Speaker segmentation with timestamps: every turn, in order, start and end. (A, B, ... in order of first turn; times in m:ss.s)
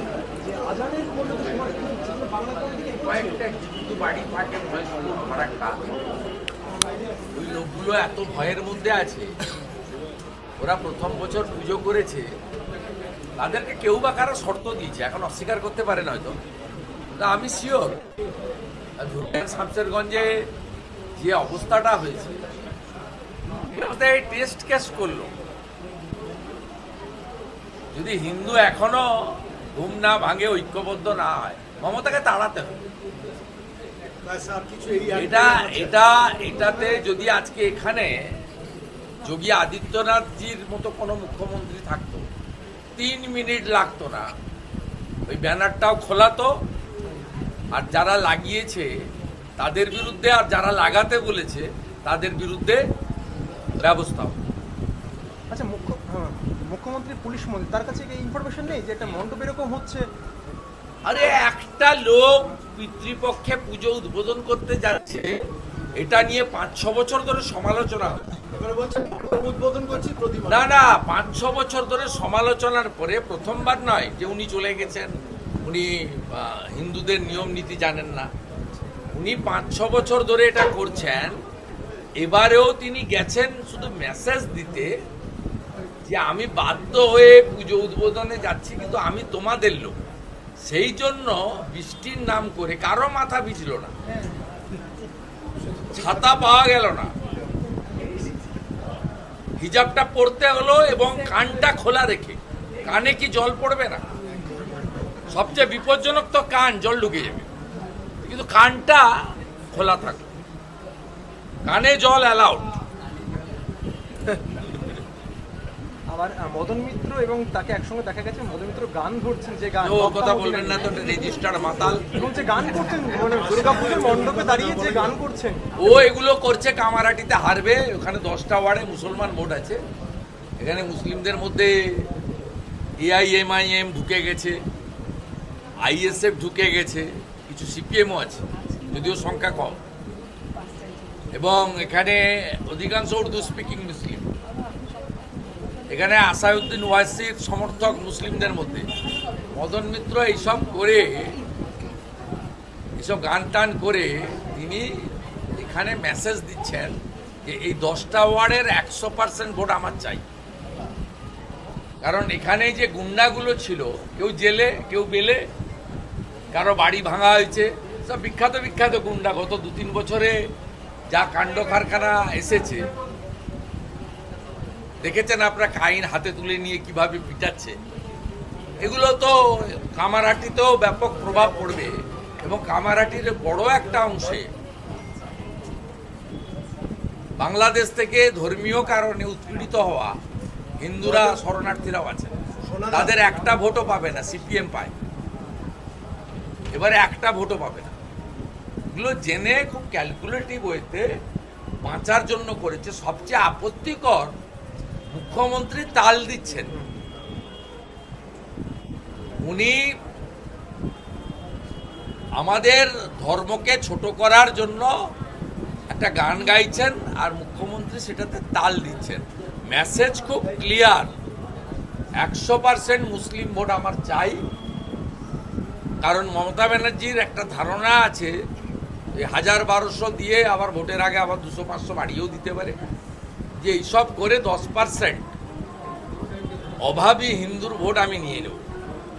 0:00.4-0:03.4 A
0:03.0-0:05.9 B
0:07.3-0:09.3 B
0:10.6-0:12.2 B
0:13.4-0:16.4 B
0:17.2-0:18.0 B
0:19.0-0:20.3 B
0:21.2-0:22.4 B
0:23.7-0:25.3 B
0:27.9-0:29.0 B
0:29.7-0:32.8 B
0:34.2-0:36.0 C
0:35.1-0:38.1 B
0:39.2-0:42.2 B
0:43.0-0:44.3 B
0:45.3-0:46.5 B
0:47.7-0:48.9 B
0:49.6-0:52.8 B
0:53.8-0:54.4 B
0:55.5-1:00.1 A
1:01.0-1:05.3 B
1:06.0-1:08.3 B
1:08.5-1:10.8 C
1:10.5-1:15.1 B
1:15.6-1:18.3 B
1:19.2-1:21.4 B
1:22.2-1:24.9 B
1:26.1-1:30.0 B
1:30.7-1:33.9 B
1:35.9-1:37.1 B
1:39.6-1:44.0 B
1:45.3-1:47.5 B
1:48.2-1:49.0 B
1:49.7-1:50.2 B
1:51.6-1:52.6 B
1:56.1-2:01.2 A
1:59.8-2:02.1 B
2:02.1-2:05.6 A
2:03.2-2:05.2 C
2:05.8-2:09.8 B
2:10.6-2:12.0 B
2:13.0-2:14.6 B
2:15.8-2:19.8 B
2:21.3-2:24.2 B
2:25.9-2:28.9 B
2:29.5-2:31.4 B
2:33.0-2:34.9 B
2:35.6-2:40.2 B
2:42.0-2:45.4 B
2:46.5-2:50.4 B
2:51.1-2:52.8 B
2:55.0-2:57.8 B
2:58.8-2:59.4 B
3:00.0-3:04.5 B
3:07.4-3:10.1 B
3:10.8-3:12.3 B
3:11.0-3:11.4 C
3:12.6-3:13.3 C
3:12.9-3:14.9 B
3:16.7-3:17.9 B
3:18.9-3:21.1 B
3:21.8-3:24.3 B
3:25.1-3:26.7 B
3:29.4-3:29.8 B
3:32.4-3:34.9 B
3:35.9-3:41.1 B
3:42.2-3:44.4 B
3:46.0-3:48.3 B
3:49.1-3:52.8 B
3:53.6-3:55.2 B
3:56.8-3:58.6 B